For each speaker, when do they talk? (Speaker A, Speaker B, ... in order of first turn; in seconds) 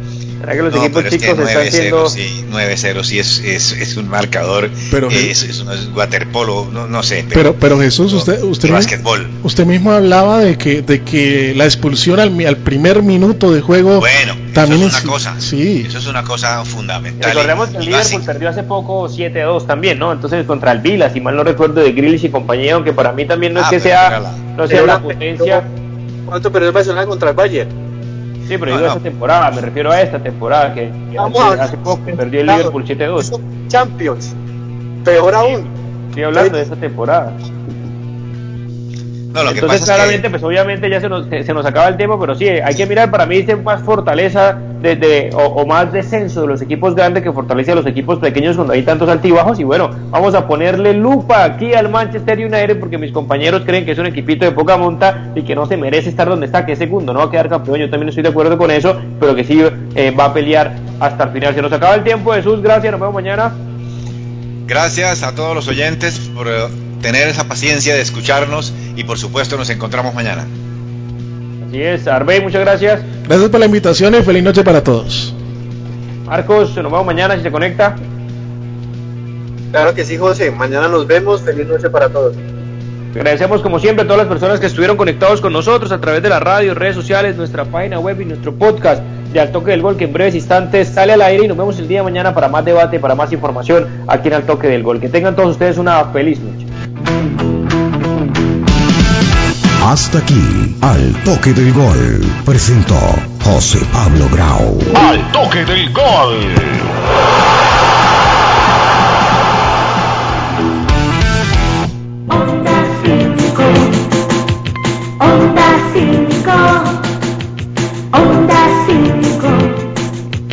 Speaker A: 0.4-2.1, 17.2-25.6, 28.5-33.3, 36.1-37.4, 39.5-63.5, 71.6-73.0, 76.3-78.0, 83.1-96.7
Speaker B: 0.7-9.3, 14.0-18.2, 23.6-24.4, 28.7-29.0, 39.3-40.2, 64.7-70.5
Speaker C: 4.9-5.3, 7.3-15.9, 73.2-75.3
Speaker D: 24.7-25.6, 26.3-27.7, 31.2-34.3, 35.0-35.7, 79.7-82.4
Speaker E: 99.8-105.0
Speaker F: 104.9-106.8
Speaker G: 112.3-114.1, 115.2-117.0, 118.1-119.8